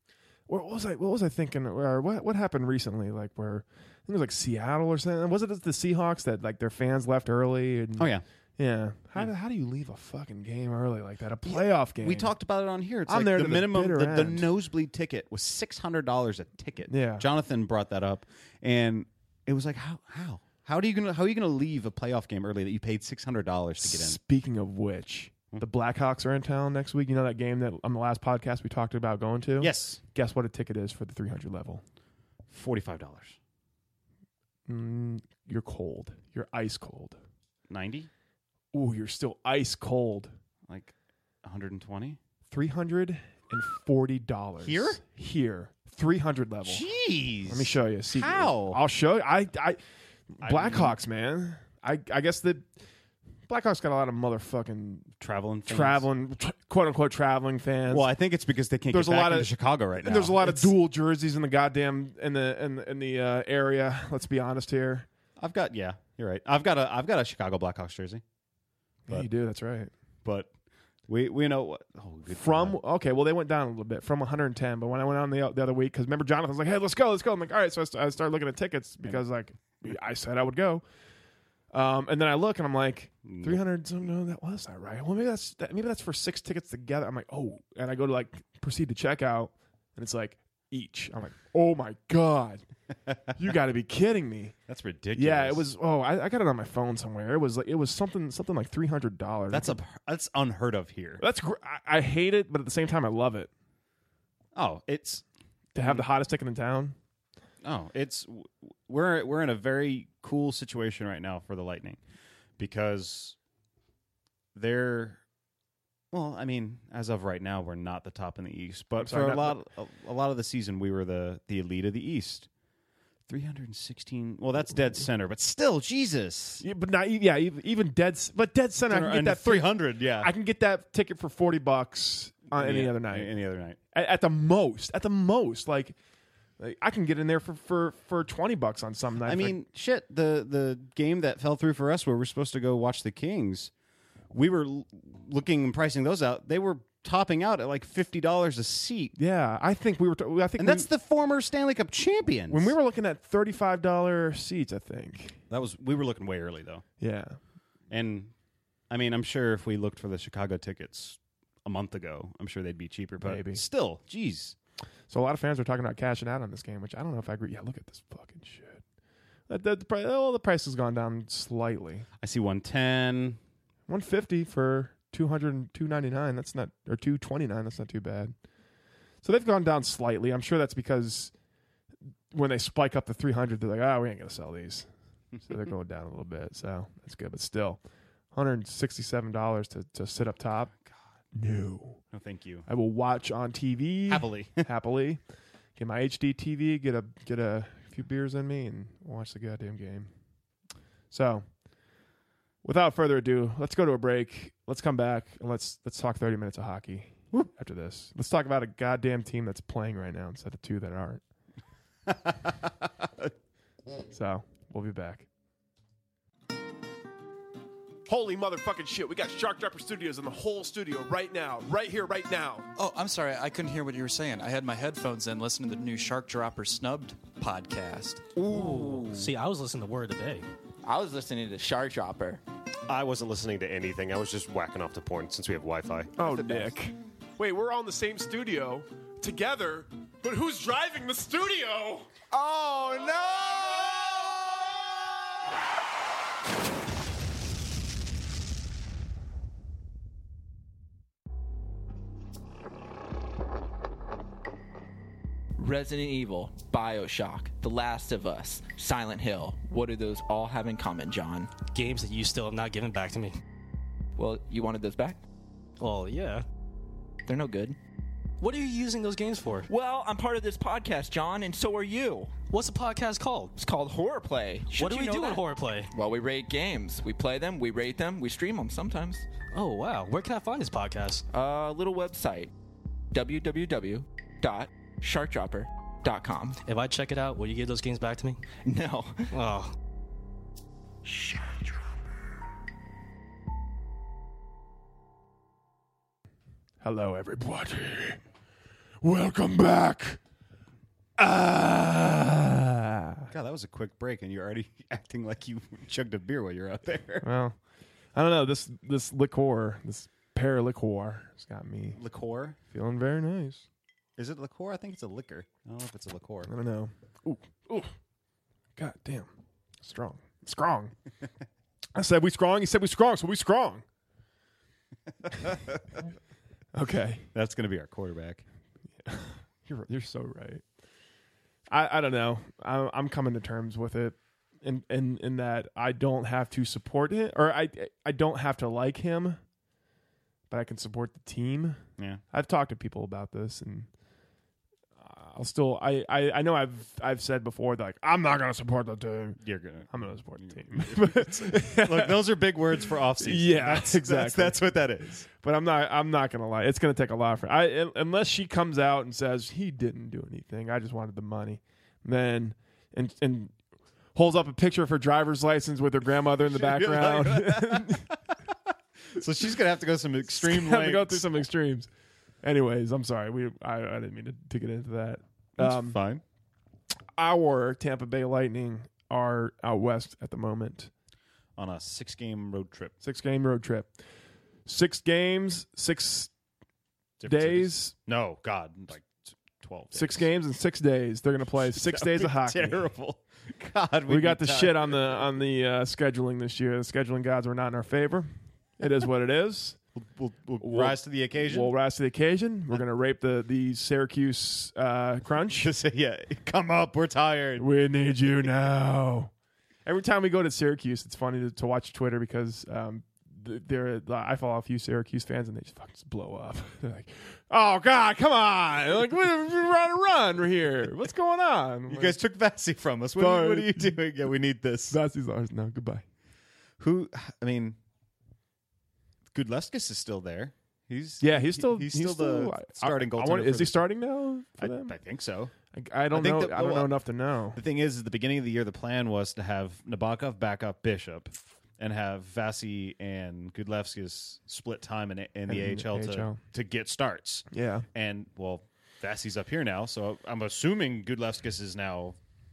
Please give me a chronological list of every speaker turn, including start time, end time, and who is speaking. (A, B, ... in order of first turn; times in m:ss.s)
0:00.5-0:12.3 A
0:08.0-0:08.2 B
0:11.4-0:24.2 B
0:13.1-0:14.5 A
0:16.9-0:17.3 A
0:23.8-0:31.8 A
0:29.6-0:30.0 B
0:32.5-0:33.4 B
0:34.7-0:37.2 A
0:37.7-0:38.1 B
0:38.7-0:40.3 A
0:40.7-0:42.2 B
0:42.5-0:46.8 A
0:44.6-0:45.0 B
0:46.6-0:48.8 B
0:47.5-0:49.8 A
0:50.3-0:52.6 A
0:50.4-0:51.0 B
0:53.5-0:55.1 A
0:55.2-0:56.1 B
0:55.7-0:58.1 A
0:57.9-1:00.7 B
0:58.9-1:05.1 A
1:05.4-1:08.2 B
1:09.1-1:09.9 A
1:10.2-1:10.5 B
1:11.1-1:12.8 B
1:12.3-1:20.8 A
1:21.7-1:32.6 A
1:23.2-1:23.6 B
1:33.4-1:34.5 A
1:34.7-1:35.7 B
1:35.1-1:39.8 A
1:39.5-1:41.2 B
1:41.2-1:43.5 A
1:44.5-1:45.2 B
1:45.7-1:47.0 A
1:47.6-1:52.0 B
1:52.6-1:53.4 B
1:54.5-1:55.2 B
1:56.1-2:02.5 B
1:59.0-1:59.6 A
2:03.3-2:06.6 B
2:06.6-2:13.3 A
2:08.9-2:10.3 B
2:12.5-2:13.8 B
2:13.9-2:16.0 A
2:16.6-2:19.6 A
2:19.2-2:23.7 B
2:24.3-2:29.1 B
2:29.2-2:30.9 A
2:30.6-2:32.7 B
2:32.5-2:35.4 A
2:35.5-2:36.8 B
2:37.0-2:37.4 A
2:37.9-2:38.3 B
2:38.9-2:44.5 B
2:43.2-2:43.6 A
2:45.1-2:48.8 A
2:49.5-2:52.0 A
2:52.2-2:53.4 B
2:53.9-2:58.3 A
2:59.2-3:01.3 A
3:02.3-3:04.9 A
3:05.4-3:07.8 A
3:08.3-3:10.7 A
3:11.3-3:12.0 A
3:12.1-3:12.6 B
3:12.7-3:15.2 A
3:14.1-3:14.6 B
3:15.8-3:20.1 A
3:21.1-3:21.4 A
3:22.6-3:31.2 A
3:32.1-3:33.3 B
3:34.1-3:35.2 A
3:38.1-3:42.6 A
3:42.8-3:48.4 C
3:48.4-3:49.2 D
3:48.5-3:50.5 E
3:50.8-3:52.4 D
3:52.9-3:56.1 F
3:56.2-4:02.1 A
3:56.2-3:56.6 D
4:02.3-4:03.1 D
4:15.6-4:21.5 D
4:21.7-4:23.4 E
4:24.2-4:25.2 D
4:25.8-4:26.4 E
4:27.2-4:27.8 D
4:28.4-4:29.7 E
4:29.7-4:32.3 D
4:32.5-4:33.5 E
4:33.6-4:39.2 D
4:34.7-4:35.9 E
4:39.5-4:41.2 E
4:41.3-4:42.5 D
4:43.1-4:46.6 D
4:46.6-4:48.4 E
4:48.6-4:49.3 D
4:49.3-4:49.7 E
4:51.1-4:51.4 D
4:56.8-4:58.2 A
4:59.0-5:00.2 A
5:01.2-5:03.3 A
5:03.3-5:07.2 B
5:07.2-5:07.6 A
5:08.1-5:12.0 A
5:12.0-5:12.6 B
5:12.7-5:13.6 A
5:14.2-5:16.5 B
5:16.4-5:17.9 A
5:18.8-5:19.3 A
5:19.8-5:20.9 A
5:21.9-5:23.8 A
5:25.3-5:25.8 B
5:26.7-5:27.3 A
5:27.3-5:28.4 B
5:29.0-5:30.6 A
5:31.7-5:39.4 A
5:40.5-5:41.8 A
5:42.3-5:43.9 A
5:45.0-5:52.3 A
5:49.4-5:55.2 B
5:53.2-5:54.6 A
5:55.3-6:03.5 A
6:04.1-6:08.1 A
6:06.4-6:08.5 B
6:09.1-6:11.4 B
6:10.3-6:11.9 A
6:12.4-6:16.0 A
6:15.6-6:16.2 B
6:17.2-6:20.9 A
6:21.6-6:22.9 B
6:23.0-6:23.9 A
6:24.6-6:26.3 A
6:27.2-6:30.3 B
6:27.3-6:27.9 A
6:29.9-6:32.8 A
6:31.6-6:35.2 B
6:34.1-6:39.8 A
6:40.0-6:41.7 B
6:40.6-6:45.7 A
6:45.5-6:47.6 B
6:47.6-6:49.3 A
6:49.8-7:02.2 A
7:01.9-7:05.0 B
7:03.2-7:04.0 A
7:04.9-7:06.0 A
7:06.8-7:07.8 B
7:09.3-7:13.8 B
7:11.2-7:14.9 A
7:14.6-7:15.5 B
7:15.7-7:17.6 A
7:16.1-7:16.9 B
7:17.5-7:32.2 B
7:25.5-7:26.4 A
7:27.5-7:27.8 A